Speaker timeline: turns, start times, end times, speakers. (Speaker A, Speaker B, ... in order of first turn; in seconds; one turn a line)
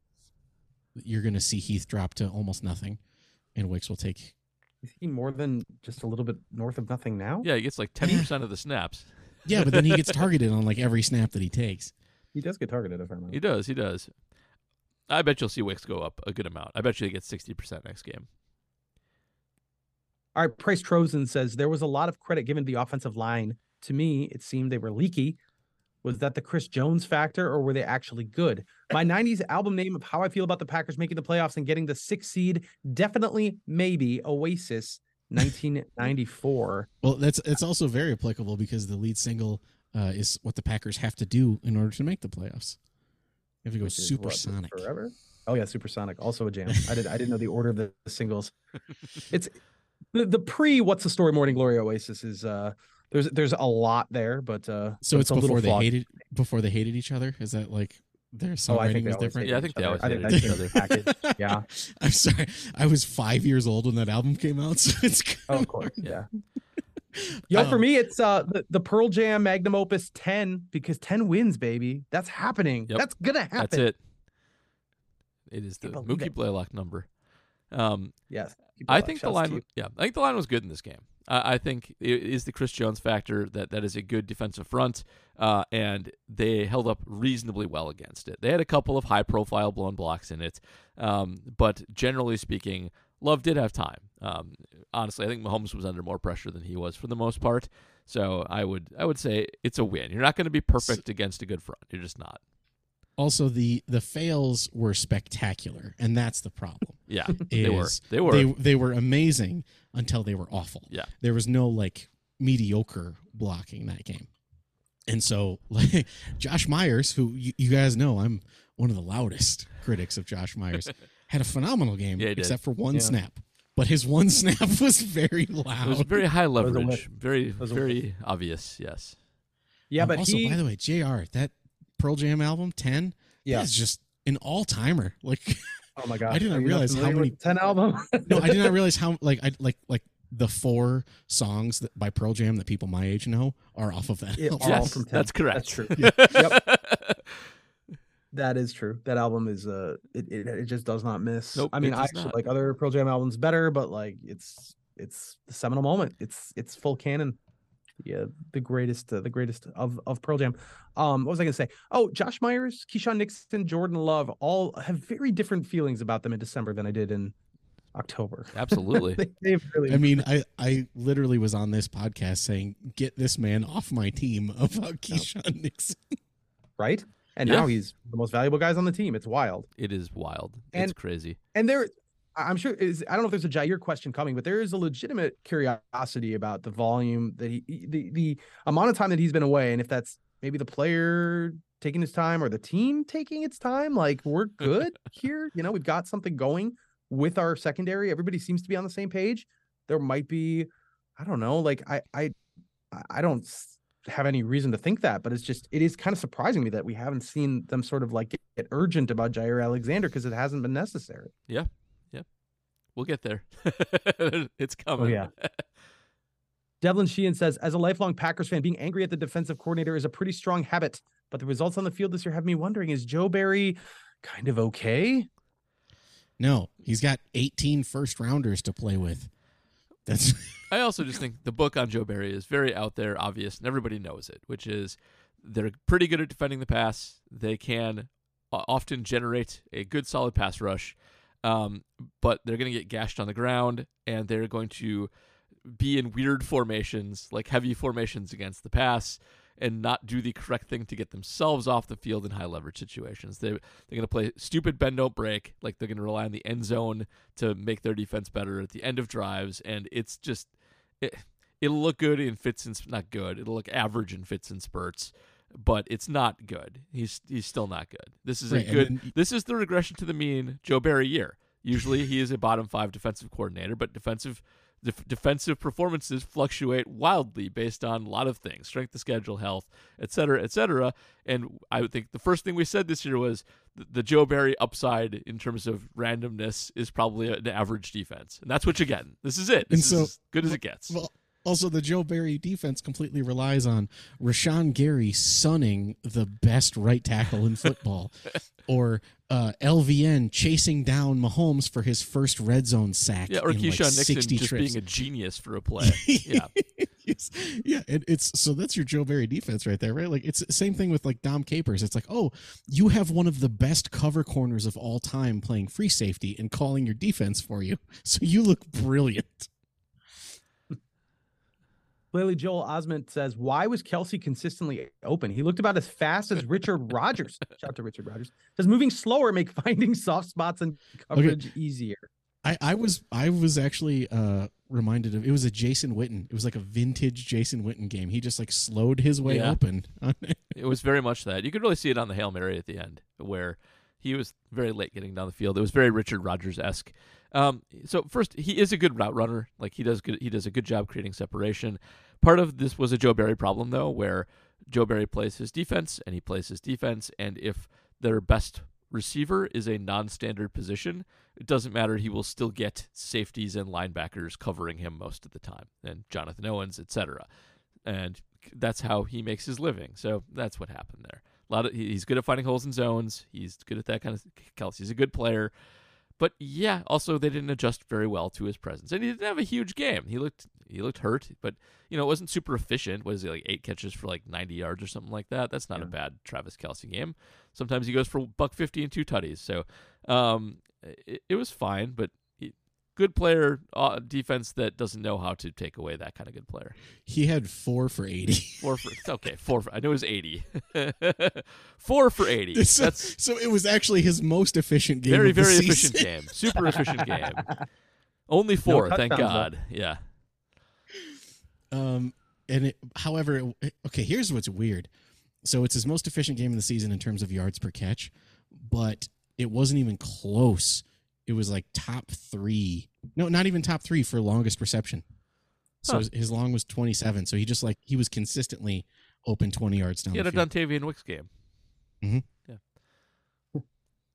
Speaker A: 0.9-3.0
Speaker A: 3.5-4.3
Speaker B: 4.8-7.5
Speaker C: 7.4-10.1
Speaker A: 8.0-8.3
Speaker A: 9.4-11.9
Speaker B: 12.3-13.4
Speaker C: 13.3-14.1
Speaker C: 15.1-18.3
Speaker B: 20.4-25.4
Speaker B: 26.0-36.9
Speaker A: 37.0-42.8
Speaker A: 43.6-44.9
Speaker B: 43.8-48.5
Speaker B: 49.3-49.6
Speaker B: 50.1-55.9
Speaker A: 55.0-66.1
Speaker B: 58.7-61.7
Speaker C: 59.4-60.8
Speaker B: 65.5-66.3
Speaker A: 67.1-67.8
Speaker B: 67.5-73.9
Speaker C: 73.6-74.0
Speaker C: 75.5-77.1
Speaker B: 75.8-76.3
Speaker C: 77.7-78.2
Speaker B: 78.3-79.6
Speaker C: 78.9-102.4
Speaker A: 103.2-114.3
Speaker C: 107.1-108.5
Speaker A: 115.1-126.2
Speaker C: 122.2-122.6
Speaker B: 122.9-123.2
Speaker C: 125.8-129.2
Speaker B: 126.6-127.0
Speaker B: 127.6-128.0
Speaker B: 129.9-130.6
Speaker A: 130.0-137.4
Speaker B: 136.0-138.8
Speaker A: 138.3-145.0
Speaker B: 144.4-146.6
Speaker C: 144.6-147.4
Speaker A: 146.0-146.5
Speaker B: 148.3-157.4
Speaker C: 151.6-152.4
Speaker B: 158.0-167.3
Speaker B: 167.9-170.2
Speaker C: 168.5-169.2
Speaker A: 169.9-176.0
Speaker B: 176.8-179.7
Speaker C: 177.4-177.7
Speaker C: 179.8-181.4
Speaker B: 181.5-202.3
Speaker B: 202.9-211.3
Speaker C: 211.5-212.3
Speaker C: 213.0-215.7
Speaker B: 215.0-215.3
Speaker B: 216.8-225.3
Speaker A: 226.4-229.3
Speaker A: 230.1-230.7
Speaker C: 230.7-245.1
Speaker C: 245.7-290.9
Speaker A: 268.5-269.1
Speaker A: 289.7-304.8
Speaker C: 303.3-306.5
Speaker A: 305.8-319.5
Speaker B: 322.1-332.1
Speaker A: 331.1-331.4
Speaker A: 332.4-340.5
Speaker C: 339.2-339.6
Speaker C: 340.6-367.3
Speaker C: 367.8-375.5
Speaker C: 376.2-396.8
Speaker A: 397.1-398.6
Speaker C: 398.6-403.1
Speaker A: 402.5-406.1
Speaker C: 405.1-407.5
Speaker C: 408.3-410.0
Speaker B: 408.7-409.5
Speaker A: 411.7-414.9
Speaker A: 415.4-425.0
Speaker A: 425.9-430.5
Speaker C: 430.1-431.3